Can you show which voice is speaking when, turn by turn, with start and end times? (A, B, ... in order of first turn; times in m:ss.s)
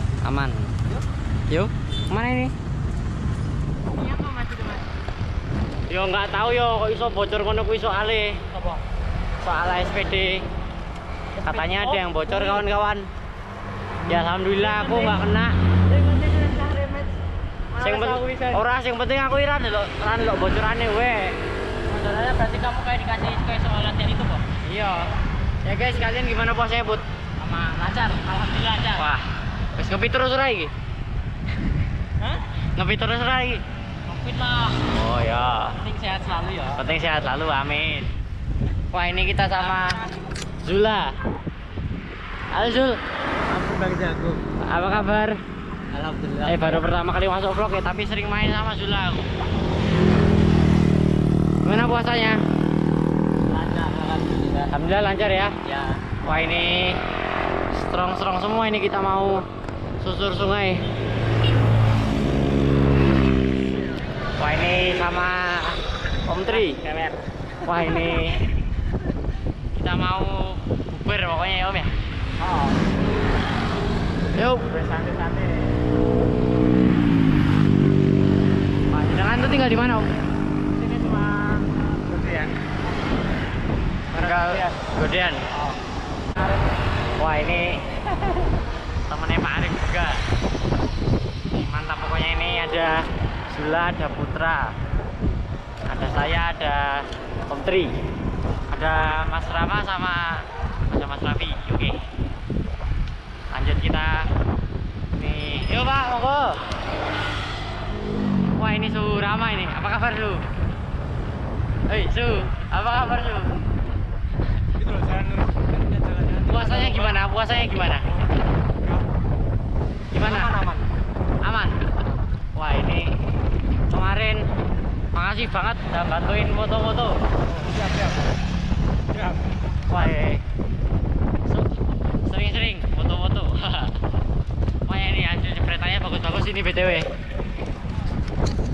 0:00.2-0:00.7 A
0:01.5-0:02.5 A
0:04.0-0:04.8 B
0:05.9-0:08.4 A
0:09.4-0:10.4 A
0:11.4-0:12.6 B
0:11.4-0:13.1 A
0:14.1-0:15.5 A
0:14.6-0:15.2 B
0:15.9-0:17.1 B
0:17.7-0:18.6 B
0:17.8-0:21.4 A
0:21.8-0:24.5 B
0:24.6-0:25.1 A
0:25.6-0:27.0 A
0:27.4-0:29.0 B
0:28.9-0:29.2 A
0:29.7-0:30.7 A
0:32.7-0:33.6 A
0:34.0-0:34.8 B
0:34.8-0:35.8 A
0:35.8-0:36.8 B
0:36.7-0:38.1 A
0:38.9-0:40.0 A
0:39.7-0:40.0 B
0:40.6-0:41.1 A
0:42.5-0:43.0 A
0:43.4-0:44.4 B
0:44.6-0:45.4 A
0:45.9-0:46.8 B
0:46.4-0:49.3 A
0:51.6-0:52.4 A
0:53.5-0:54.7 B
0:54.7-0:55.6 A
0:55.6-0:56.0 B
0:56.2-0:57.0 A
0:57.7-0:59.4 A
1:00.0-1:00.8 A
1:04.4-1:06.8 A
1:06.5-1:07.2 B
1:07.6-1:08.4 A
1:09.7-1:11.9 A
1:12.4-1:12.8 B
1:14.3-1:14.9 A
1:14.8-1:15.7 B
1:18.9-1:20.1 A
1:20.8-1:22.6 B
1:24.1-1:24.7 B
1:24.1-1:25.4 A
1:27.2-1:28.5 A
1:29.0-1:30.2 A
1:31.5-1:34.7 A
1:35.9-1:37.9 A
1:38.7-1:42.0 A
1:43.5-1:44.3 A
1:45.1-1:46.7 A
1:48.5-1:50.5 A
1:51.9-1:53.6 A
1:54.8-1:57.0 B
1:56.4-1:58.2 A
2:00.1-2:00.6 A
2:00.2-2:00.9 B
2:01.4-2:01.8 A
2:02.5-2:03.1 A
2:03.9-2:04.4 A
2:05.1-2:07.2 A
2:07.5-2:08.2 B
2:09.8-2:10.4 A
2:11.5-2:14.0 A
2:14.9-2:17.1 A